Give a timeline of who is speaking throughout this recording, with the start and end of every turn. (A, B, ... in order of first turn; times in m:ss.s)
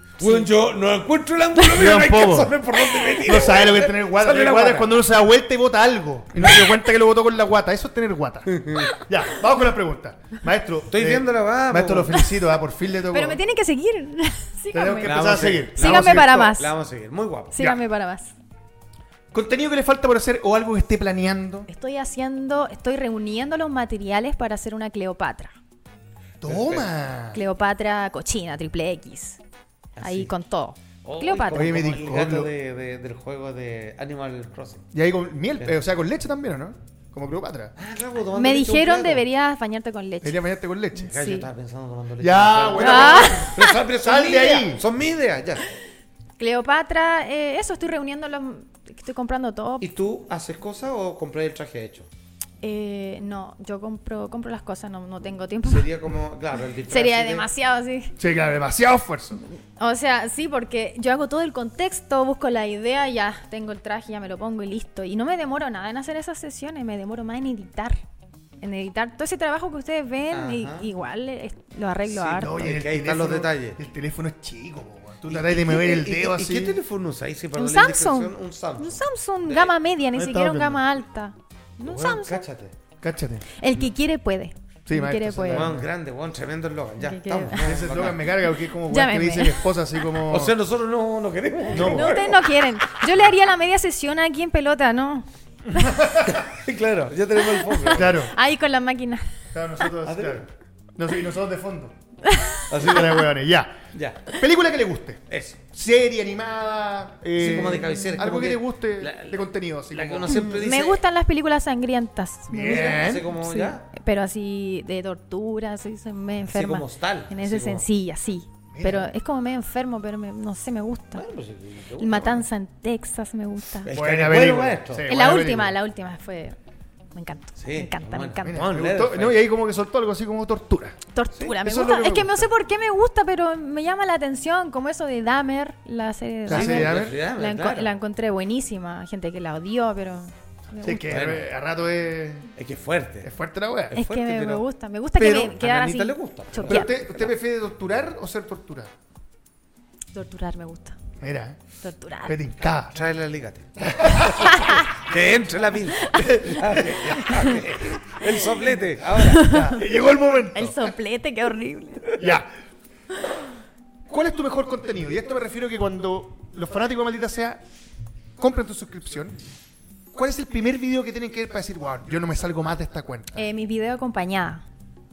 0:00.2-0:05.0 A
0:00.2-0:00.5 B
0:01.7-0:02.6 C
0:03.2-0:13.4 C
0:08.5-0:08.9 A
0:10.9-0:12.3 A
0:13.1-0:16.7 B
0:14.7-0:16.6 C
0:15.0-0:17.5 A
0:17.5-0:18.3 B
0:19.3-0:21.7 C
0:21.7-0:25.5 B
0:26.4-0:27.4 C
0:26.4-0:26.9 A
0:27.3-0:29.4 B
0:30.0-0:30.3 A
0:30.0-0:31.8 B
0:31.0-0:34.9 A
0:31.5-0:32.5 C
0:34.9-0:37.7 C
0:37.8-0:39.2 A
0:38.3-0:40.4 B
0:40.2-0:41.1 C
0:41.0-0:41.5 B
0:41.0-0:45.6 A
0:42.2-0:44.8 C
0:42.8-0:43.6 B
0:46.4-0:49.9 B
0:49.8-0:52.1 A
0:52.6-0:55.9 B
0:55.7-0:57.5 A
0:56.9-0:58.1 B
0:58.2-0:59.4 C
0:59.8-1:08.0 B
1:08.6-1:12.6 B
1:10.3-1:10.9 A
1:12.2-1:16.8 C
1:12.3-1:13.8 A
1:15.3-1:19.7 A
1:17.6-1:22.4 B
1:20.1-1:20.8 C
1:21.8-1:22.7 A
1:23.0-1:23.5 C
1:23.6-1:25.7 B
1:24.9-1:25.9 C
1:25.5-1:28.2 A
1:27.0-1:27.7 B
1:27.6-1:30.6 C
1:28.9-1:29.6 B
1:30.3-1:32.5 A
1:31.7-1:32.3 C
1:31.8-1:35.9 B
1:35.8-1:36.3 C
1:36.3-1:38.2 A
1:37.6-1:39.2 B
1:37.9-1:38.3 C
1:39.5-1:41.9 C
1:40.0-1:40.4 A
1:42.2-1:42.6 B
1:42.7-1:43.2 A
1:42.8-1:43.8 C
1:43.9-1:44.3 A
1:44.3-1:50.6 C
1:45.3-1:45.6 A
1:47.4-1:51.0 A
1:50.3-2:01.2 B
1:52.5-1:53.3 C
1:52.6-1:53.9 A
1:56.5-1:57.9 A
1:58.7-1:59.1 C
2:01.2-2:02.5 A
2:02.0-2:03.9 B
2:03.8-2:05.1 A
2:03.9-2:05.7 C
2:05.1-2:06.6 B
2:07.1-2:08.6 B
2:07.6-2:09.5 A
2:08.5-2:12.5 C
2:11.1-2:21.3 B
2:16.5-2:17.2 C
2:16.5-2:17.9 A
2:20.8-2:22.5 C
2:21.1-2:21.5 A
2:22.6-2:23.3 A
2:23.2-2:24.0 C
2:23.9-2:24.6 A
2:23.9-2:26.9 B
2:25.2-2:27.4 A
2:26.7-2:28.9 C
2:30.1-2:31.0 B
2:31.2-2:31.6 C
2:31.8-2:32.4 B
2:32.3-2:33.0 C
2:32.9-2:39.6 A
2:33.8-2:34.5 C
2:34.4-2:34.9 B
2:36.2-2:37.3 C
2:37.2-2:37.5 B
2:39.2-2:39.8 B
2:39.4-2:40.9 C
2:40.5-2:42.2 B
2:42.2-2:42.5 C
2:44.1-2:47.6 C
2:48.4-2:49.4 C
2:50.1-2:53.4 C
2:53.4-2:54.6 B